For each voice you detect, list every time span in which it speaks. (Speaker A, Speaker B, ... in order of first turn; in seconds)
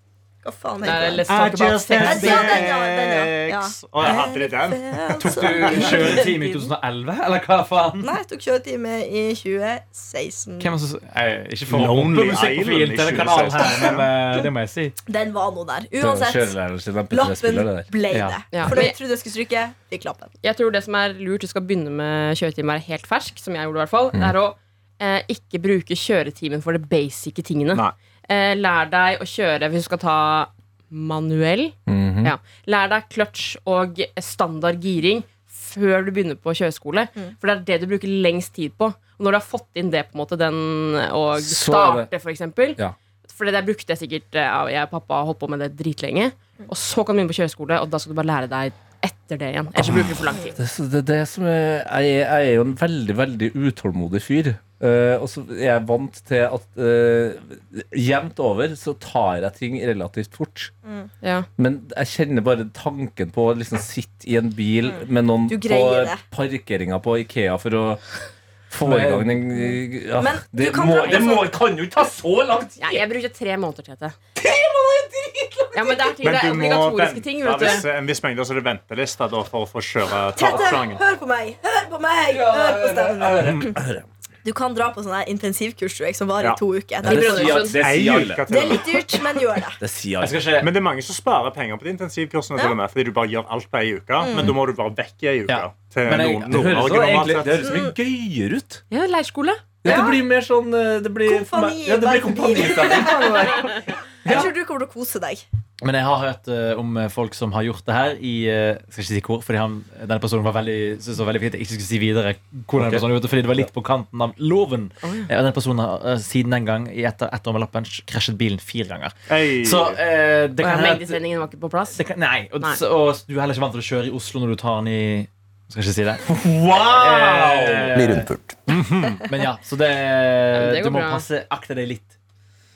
Speaker A: 0.4-1.2, 1.9-6.7, 8.0-10.7, 13.7-14.0, 15.1-16.5, 17.1-20.3, 60.8-61.1, 64.8-66.2, 69.6-71.5, 74.4-76.3, 80.3-83.8, 84.4-87.7, 88.5-89.8, 94.2-94.5, 97.6-97.9, 99.8-100.2, 101.2-105.4
Speaker B: 0.8-2.7, 18.5-18.9, 20.4-50.6, 61.2-61.5, 72.8-74.2, 75.7-77.8, 87.0-87.8, 98.9-99.6, 102.9-103.7, 115.0-115.3, 120.6-122.0, 130.5-131.2
Speaker C: 1.3-6.2, 11.7-14.1, 76.2-81.0, 87.7-89.0, 90.6-97.7, 112.8-113.0, 119.3-120.0, 128.1-129.2
Speaker D: 5.2-8.1, 10.6-14.9, 18.1-18.6, 68.8-69.4, 90.2-90.7, 95.5-96.6, 105.8-121.2, 121.9-132.1
Speaker E: 16.0-17.9, 31.9-32.3, 41.4-42.1, 49.8-60.7, 61.6-68.0, 68.7-73.0, 82.3-84.1, 87.0-88.8, 89.8-90.4, 96.5-98.8, 99.8-103.6, 104.2-104.5, 126.2-128.3